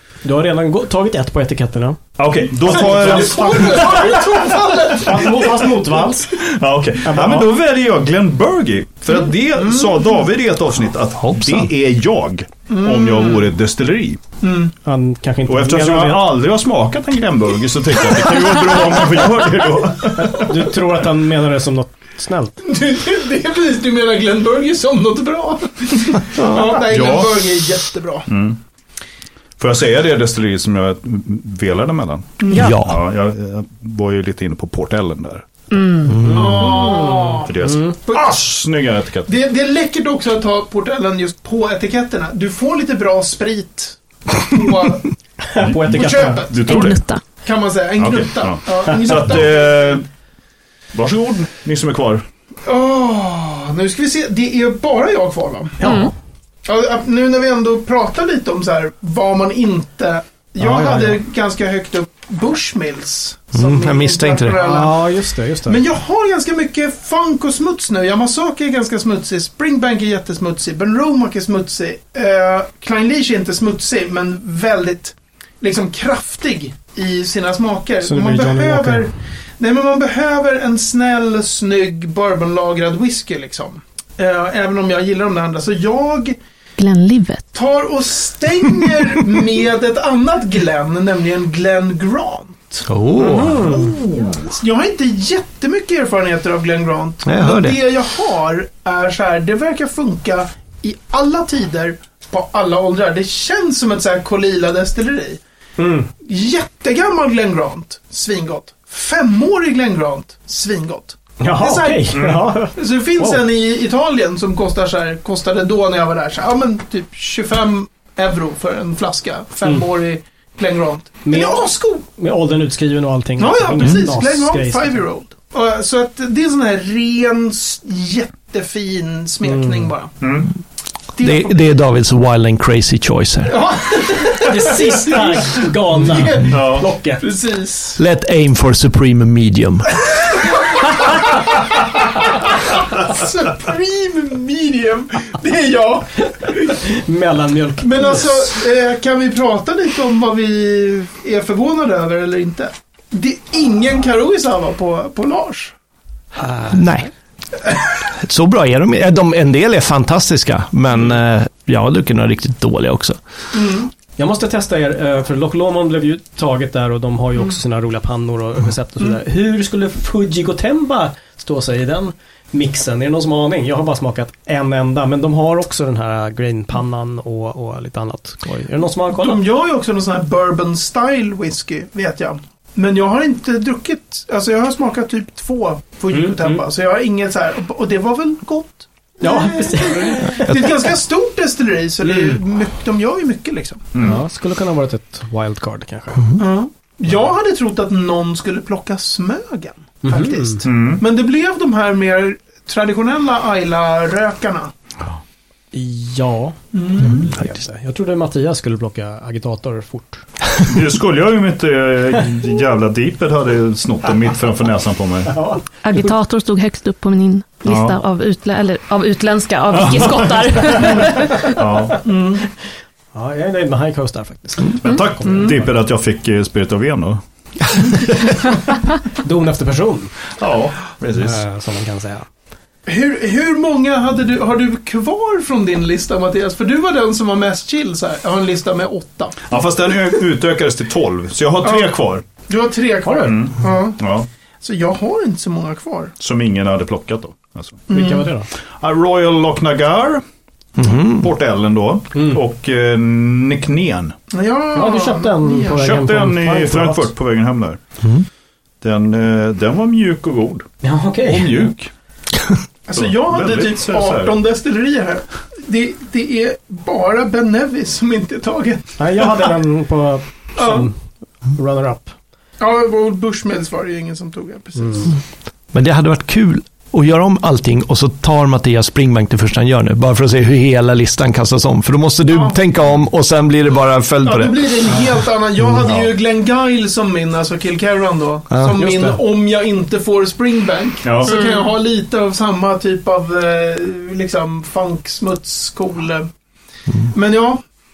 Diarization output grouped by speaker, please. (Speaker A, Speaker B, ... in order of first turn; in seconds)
Speaker A: 0.2-2.0, 2.6-4.2, 5.0-6.3, 7.0-7.5, 14.8-16.3, 20.2-22.6, 36.2-38.0, 45.5-46.6, 55.8-56.1, 60.6-61.2, 64.5-65.8, 78.0-79.1, 93.2-93.9, 105.8-106.1, 111.4-113.4, 121.2-125.0, 129.4-129.8, 134.4-137.2, 146.7-148.5, 156.4-157.1, 164.2-179.4, 186.1-186.6, 189.2-190.7, 192.0-192.4, 194.0-196.3, 200.0-200.6, 205.7-210.3, 215.3-215.6, 223.1-225.7, 229.2-230.1, 231.2-232.3, 243.0-243.3, 247.9-248.5, 252.1-252.4, 254.7-257.1, 260.8-261.7, 269.0-271.0, 271.6-272.1, 274.8-275.1, 288.8-289.2
Speaker B: 2.2-4.0, 6.3-14.2, 15.5-20.5, 26.8-27.5, 28.3-28.6, 29.6-35.5, 37.5-39.4, 45.6-47.0, 48.0-50.0, 50.9-52.2, 112.1-112.5, 130.2-130.5, 136.5-136.9, 193.9-194.2, 200.6-201.0, 210.7-215.5, 217.7-218.0, 219.8-220.2, 221.5-222.0, 224.7-227.2, 227.7-228.3, 230.4-231.4, 239.5-242.3, 243.2-244.3, 246.2-247.8, 248.8-250.2, 250.8-254.2, 255.8-257.8, 258.8-260.7, 261.2-261.9, 262.9-264.4, 291.0-291.4
Speaker C: 2.7-6.0, 9.6-10.1, 12.7-13.5, 14.4-14.7, 22.6-28.3, 32.4-32.8, 36.3-38.5, 39.3-45.1, 45.9-46.9, 47.4-50.0, 52.7-55.9, 56.6-65.1, 65.7-86.4, 87.5-92.9, 93.5-105.4, 106.2-122.0, 123.4-130.2, 131.2-131.7, 133.5-136.6, 137.2-138.0, 140.7-141.4, 142.1-146.7, 147.8-155.7, 163.5-163.9, 179.1-193.9, 196.4-204.7, 206.7-207.3, 222.0-222.4, 232.9-239.4, 241.6-244.0, 244.6-246.1, 247.9-248.3, 254.3-256.0, 262.9-268.9, 270.6-270.9, 272.6-275.2, 282.3-282.6, 284.2-296.3, 297.1-297.6
Speaker D: 32.5-33.0, 36.1-36.6, 63.5-64.6, 92.9-93.8, 97.2-97.9, 131.2-133.7, 138.0-140.0, 156.7-157.1, 158.2-163.2, 250.8-251.3, 275.7-284.8, 288.5-288.8
Speaker E: 35.7-36.1, 46.7-47.2, 55.8-56.1, 86.8-87.5, 215.8-221.6, 291.3-291.6